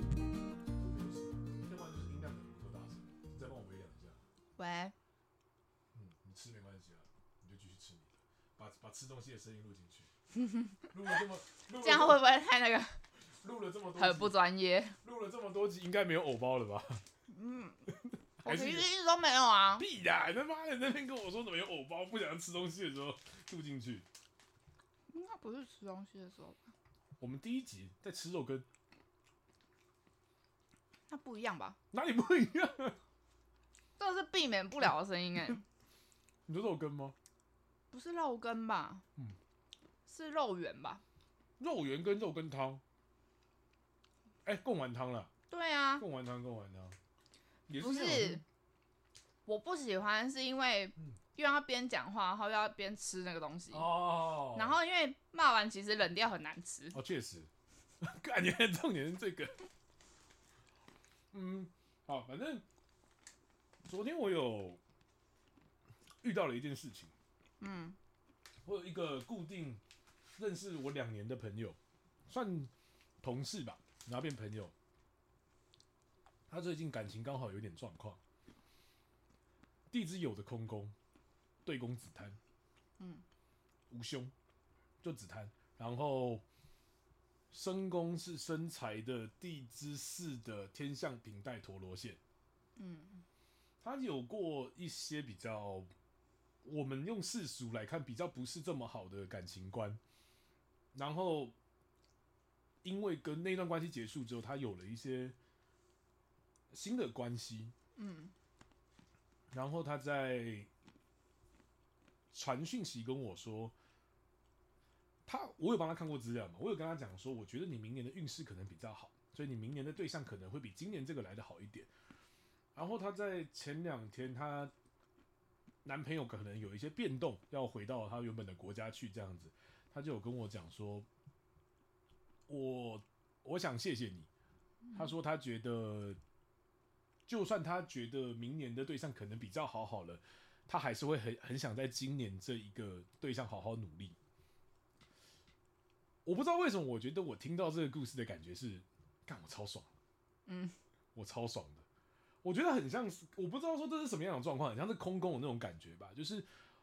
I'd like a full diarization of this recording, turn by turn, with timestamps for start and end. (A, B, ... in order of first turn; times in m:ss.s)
0:00.8-0:04.2 A
0:04.6-0:04.9 B
0:05.9-0:10.1 A
0:10.3-0:10.9 B
0:10.9-0:12.2 A
0:11.7-0:13.0 B
0:13.3-0:14.4 A
0:14.0-0:15.0 B
0:15.0-0:17.0 A
0:17.3-0:17.8 B
0:17.9-0:18.9 A
0:18.4-0:19.9 B
0:19.8-0:24.1 A
0:25.1-0:26.7 B
0:27.2-0:28.7 A
0:31.1-0:31.8 B
0:31.9-0:33.0 A
0:34.0-0:35.6 B
0:36.5-0:37.2 A
0:37.9-0:39.0 B
0:40.1-0:41.0 B
0:41.6-0:42.8 A
0:44.4-0:45.3 A
0:45.5-0:46.0 B
0:46.0-0:47.0 A
0:47.7-0:48.4 A
0:47.8-0:48.4 B
0:49.5-0:57.0 B
0:53.7-0:54.8 A
0:56.9-0:57.5 A
0:58.0-0:59.6 A
1:01.3-1:02.6 A
1:03.8-1:04.8 A
1:06.2-1:07.1 A
1:07.6-1:08.0 B
1:08.6-1:09.8 A
1:10.4-1:11.8 A
1:12.3-1:12.7 A
1:13.2-1:14.7 A
1:16.5-1:18.2 A
1:19.9-1:21.0 A
1:21.6-1:22.4 A
1:23.0-1:23.2 B
1:23.9-1:24.3 A
1:25.0-1:26.4 A
1:27.5-1:32.2 A
1:32.8-1:33.2 B
1:33.8-1:35.9 A
1:36.6-1:40.0 A
1:40.9-1:41.5 A
1:42.8-1:45.4 A
1:46.7-1:47.7 A
1:48.0-1:48.3 B
1:49.5-1:50.7 A
1:52.3-1:53.8 A
1:55.3-2:01.9 A
2:02.8-2:04.7 A
2:05.8-2:11.1 A
2:12.5-2:14.3 A
2:14.9-2:16.2 A
2:17.3-2:24.2 A
2:26.2-2:29.9 A
2:30.5-2:30.8 B
2:31.2-2:31.8 A
2:32.4-2:36.5 A